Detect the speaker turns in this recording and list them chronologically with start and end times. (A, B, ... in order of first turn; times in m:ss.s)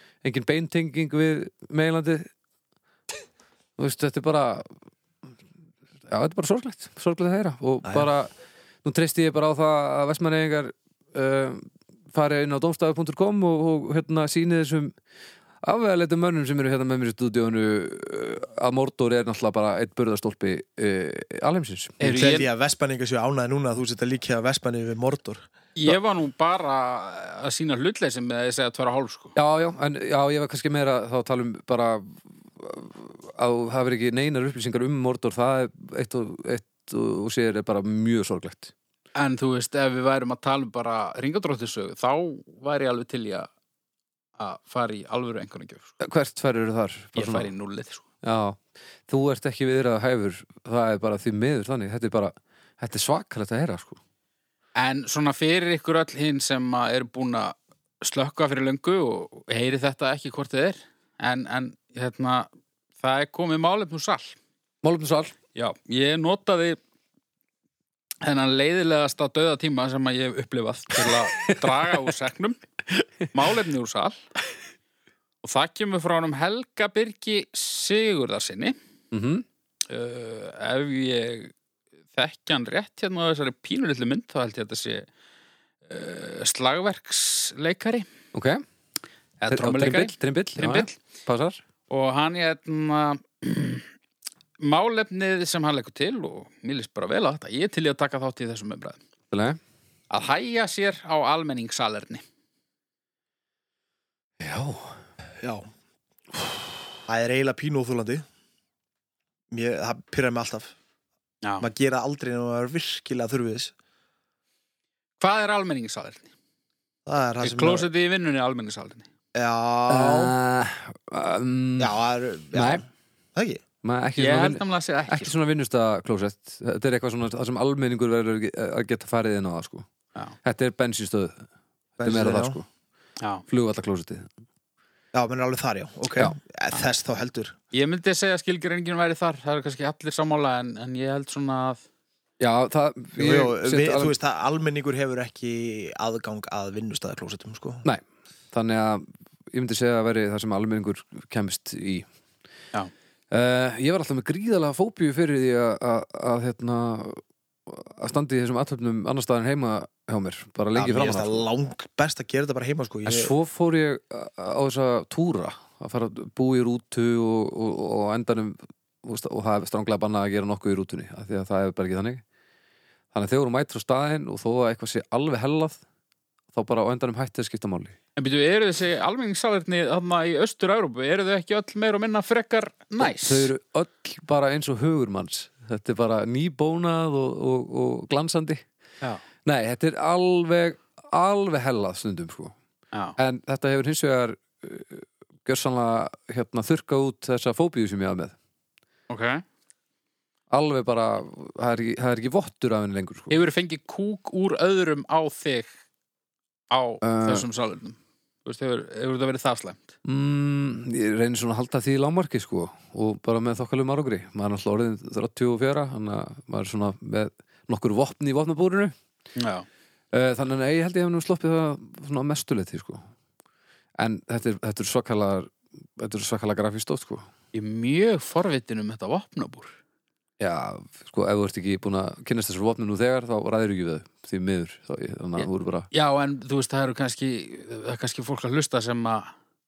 0:00.2-0:02.3 A
0:03.8-0:04.7 A
0:06.1-0:08.3 A
0:08.8-0:14.9 A
0:15.6-0:22.1 A
0:22.0-0:22.5 B
0:22.0-0:25.4 C
0:25.8-0:29.3 B
0:29.4-0:38.7 A
0:39.2-0:43.5 B
0:44.4-0:45.9 B
0:46.0-0:47.5 A
0:47.2-0:48.0 B
0:48.2-0:54.0 A
0:54.8-1:04.4 B
1:04.8-1:05.4 A
1:05.6-1:06.8 B
1:08.2-1:12.6 B
1:11.0-1:11.5 A
1:13.3-1:14.2 B
1:15.4-1:18.8 B
1:19.1-1:19.4 A
1:19.9-1:21.5 B
1:22.1-1:25.1 B
1:25.9-1:28.1 B
1:28.3-1:28.6 A
1:29.4-1:31.0 B
1:29.5-1:31.6 A
1:31.9-1:33.9 B
1:34.6-1:39.0 B
1:39.3-1:39.6 A
1:40.1-1:42.2 B
1:44.4-1:45.0 A
1:45.4-1:45.7 C
1:47.1-1:48.2 C
1:49.5-1:50.7 C
1:51.6-1:53.7 C
1:55.2-1:56.3 B
1:57.1-1:57.9 C
1:57.4-1:59.1 B
1:59.4-2:00.4 C
1:59.9-2:02.0 A
2:01.8-2:02.8 C
2:02.5-2:02.8 A
2:03.4-2:03.6 C
2:03.8-2:09.9 A
2:04.2-2:05.3 B
2:10.4-2:11.4 A
2:12.0-2:12.6 C
2:12.0-2:12.7 A
2:13.2-2:13.4 B
2:13.5-2:14.3 A
2:15.1-2:17.6 C
2:17.7-2:21.8 B
2:22.4-2:24.1 A
2:23.2-2:27.8 C
2:27.8-2:32.1 A
2:33.3-2:41.4 A
2:40.8-2:43.3 C
2:43.0-2:52.2 A
2:53.1-2:55.8 A
2:56.5-2:58.0 A
2:58.2-3:03.5 B
3:03.0-3:08.6 A
3:09.4-3:12.6 A
3:13.2-3:18.4 A
3:19.1-3:19.4 B
3:20.5-3:23.4 A
3:23.3-3:25.7 B
3:26.7-3:29.9 B
3:27.0-3:27.5 A
3:30.0-3:38.9 A
3:39.4-3:39.7 B
3:40.1-3:43.0 A
3:44.0-3:47.2 A
3:47.5-3:49.8 B
3:50.4-3:55.9 A
3:55.4-3:59.3 B